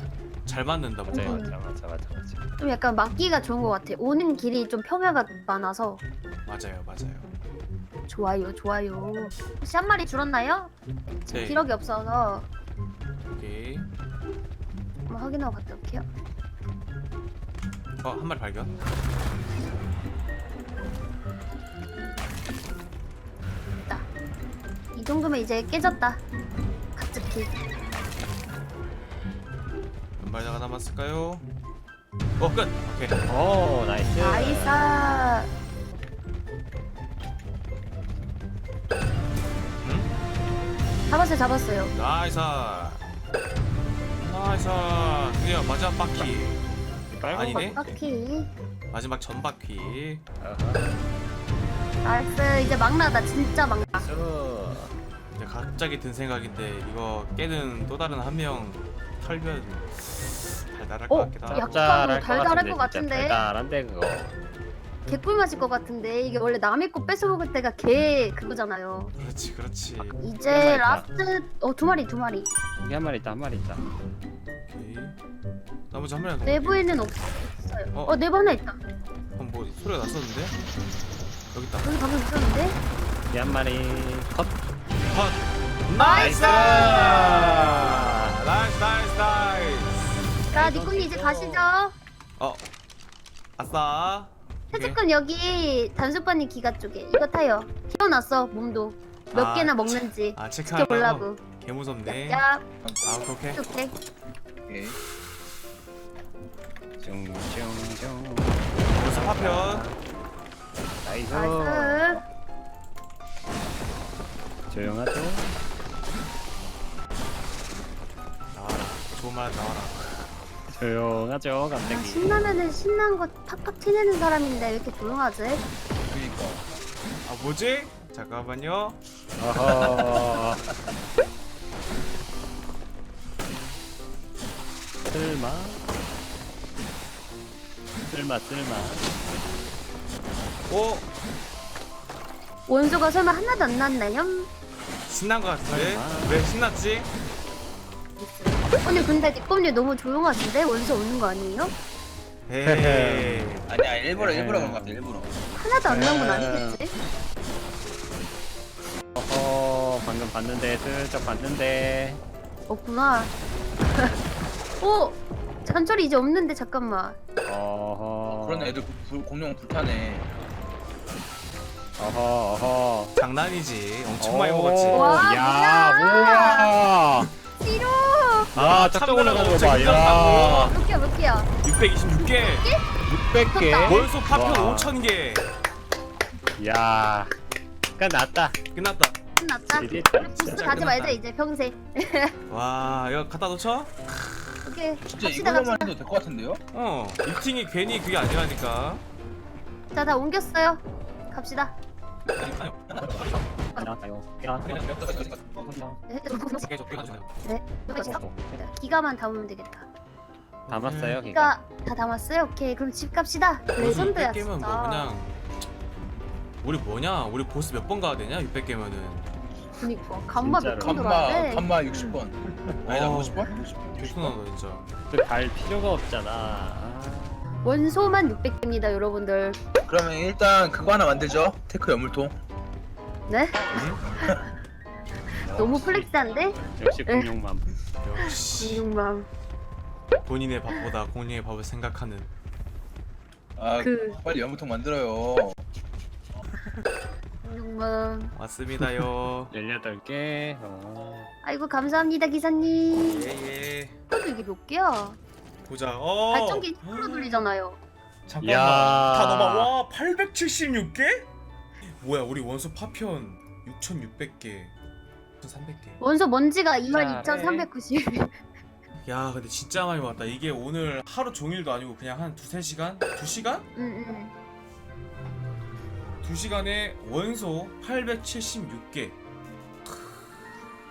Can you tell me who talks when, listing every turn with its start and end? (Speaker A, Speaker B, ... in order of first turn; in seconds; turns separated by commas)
Speaker A: 0.4-1.5, Speaker B: 1.1-1.5, Speaker C: 1.1-2.4, Speaker B: 2.6-6.0, Speaker A: 6.5-7.3, Speaker B: 8.1-12.5, Speaker A: 11.3-11.7, Speaker A: 13.3-13.9, Speaker B: 15.1-16.1, Speaker A: 18.0-18.7, Speaker B: 24.9-26.2, Speaker B: 26.9-27.5, Speaker A: 30.2-31.4, Speaker A: 32.4-33.2, Speaker C: 33.2-34.9, Speaker B: 34.2-35.5, Speaker A: 39.8-40.1, Speaker B: 41.1-41.9, Speaker A: 41.9-43.0, Speaker A: 44.2-46.6, Speaker C: 47.1-47.9, Speaker A: 47.3-47.9, Speaker B: 47.7-48.5, Speaker A: 48.9-50.2, Speaker C: 50.4-51.1, Speaker B: 52.0-54.1, Speaker C: 53.9-54.9, Speaker A: 55.4-61.7, Speaker B: 61.1-63.4, Speaker C: 61.4-64.3, Speaker B: 65.1-69.1, Speaker A: 69.2-70.2, Speaker C: 70.0-71.1, Speaker B: 70.2-72.5, Speaker C: 72.8-73.9, Speaker A: 74.7-75.2, Speaker A: 75.9-77.1, Speaker B: 76.4-78.8, Speaker A: 79.3-80.6, Speaker A: 81.5-81.9, Speaker B: 81.8-82.8, Speaker C: 83.3-84.5, Speaker A: 85.0-90.2, Speaker B: 86.0-87.7, Speaker C: 86.1-88.3, Speaker C: 90.5-91.7, Speaker B: 90.5-91.9, Speaker A: 92.4-92.7, Speaker A: 93.6-95.0, Speaker B: 94.7-101.4, Speaker A: 99.3-102.4, Speaker B: 102.1-102.6, Speaker D: 102.8-103.2, Speaker A: 103.0-103.6, Speaker B: 103.5-103.9, Speaker D: 104.7-105.0, Speaker C: 107.0-110.0, Speaker A: 108.9-109.9, Speaker C: 111.0-112.2, Speaker B: 111.3-112.2, Speaker C: 114.7-115.6, Speaker A: 118.5-120.3, Speaker C: 120.7-122.4, Speaker B: 121.8-125.6, Speaker D: 126.1-126.6, Speaker A: 127.2-129.0, Speaker C: 129.4-130.6, Speaker D: 129.6-130.4, Speaker C: 135.1-135.9, Speaker C: 138.1-139.1, Speaker A: 140.7-141.1, Speaker B: 142.7-144.5, Speaker A: 145.1-147.1, Speaker C: 145.7-146.4, Speaker B: 148.2-151.7, Speaker A: 152.5-153.7, Speaker C: 152.6-153.5, Speaker D: 153.7-155.3, Speaker C: 154.2-155.1, Speaker B: 155.6-156.9, Speaker C: 155.9-156.8, Speaker C: 159.1-162.2, Speaker B: 162.7-164.2, Speaker B: 164.8-167.2, Speaker C: 167.4-168.8, Speaker D: 168.3-170.3, Speaker C: 172.0-173.1, Speaker A: 173.1-175.3, Speaker C: 174.2-177.3, Speaker B: 174.9-176.7, Speaker B: 177.6-178.5, Speaker A: 178.5-180.7, Speaker C: 178.5-180.8, Speaker B: 179.8-181.5, Speaker A: 181.6-182.7, Speaker B: 182.2-182.9, Speaker C: 183.1-185.0, Speaker B: 183.5-184.1, Speaker A: 183.8-185.5, Speaker C: 186.6-187.3, Speaker C: 188.0-188.6, Speaker A: 188.7-189.2, Speaker B: 189.4-192.3, Speaker C: 189.7-190.8, Speaker A: 190.4-191.2, Speaker A: 192.5-193.9, Speaker B: 194.6-195.9, Speaker D: 195.0-196.6, Speaker A: 196.7-199.0, Speaker B: 199.9-201.8, Speaker A: 202.4-203.3, Speaker D: 202.4-203.2, Speaker C: 203.8-204.8, Speaker A: 204.7-205.0, Speaker D: 204.8-205.7, Speaker C: 205.7-206.0, Speaker B: 206.1-206.7, Speaker A: 206.6-207.3, Speaker B: 207.4-209.9, Speaker C: 208.0-208.6, Speaker A: 210.6-211.2, Speaker C: 210.7-211.5, Speaker B: 211.3-215.1, Speaker A: 213.8-215.3, Speaker A: 216.6-219.3, Speaker B: 219.8-222.1, Speaker C: 220.4-221.2, Speaker D: 220.8-224.4, Speaker C: 222.5-222.8, Speaker A: 222.8-224.9, Speaker C: 225.1-227.4, Speaker B: 227.6-229.6, Speaker D: 229.8-232.3, Speaker B: 233.3-234.4, Speaker A: 233.7-234.0, Speaker B: 235.4-237.3, Speaker C: 235.4-237.7, Speaker A: 238.0-238.9, Speaker B: 238.2-239.3, Speaker A: 240.2-242.3, Speaker D: 243.6-245.6, Speaker B: 243.8-244.2, Speaker A: 246.5-246.8, Speaker B: 247.4-248.3, Speaker A: 248.3-249.5, Speaker C: 248.8-251.3, Speaker B: 251.4-253.3, Speaker A: 253.0-254.0, Speaker B: 254.1-255.2, Speaker A: 255.6-257.4, Speaker B: 256.3-257.8, Speaker A: 258.3-261.3, Speaker C: 258.4-259.7, Speaker A: 261.8-264.7, Speaker A: 265.4-266.0, Speaker B: 266.0-268.4, Speaker C: 266.9-267.7, Speaker A: 269.0-273.7, Speaker B: 273.8-274.3, Speaker A: 276.2-279.2, Speaker A: 279.9-280.4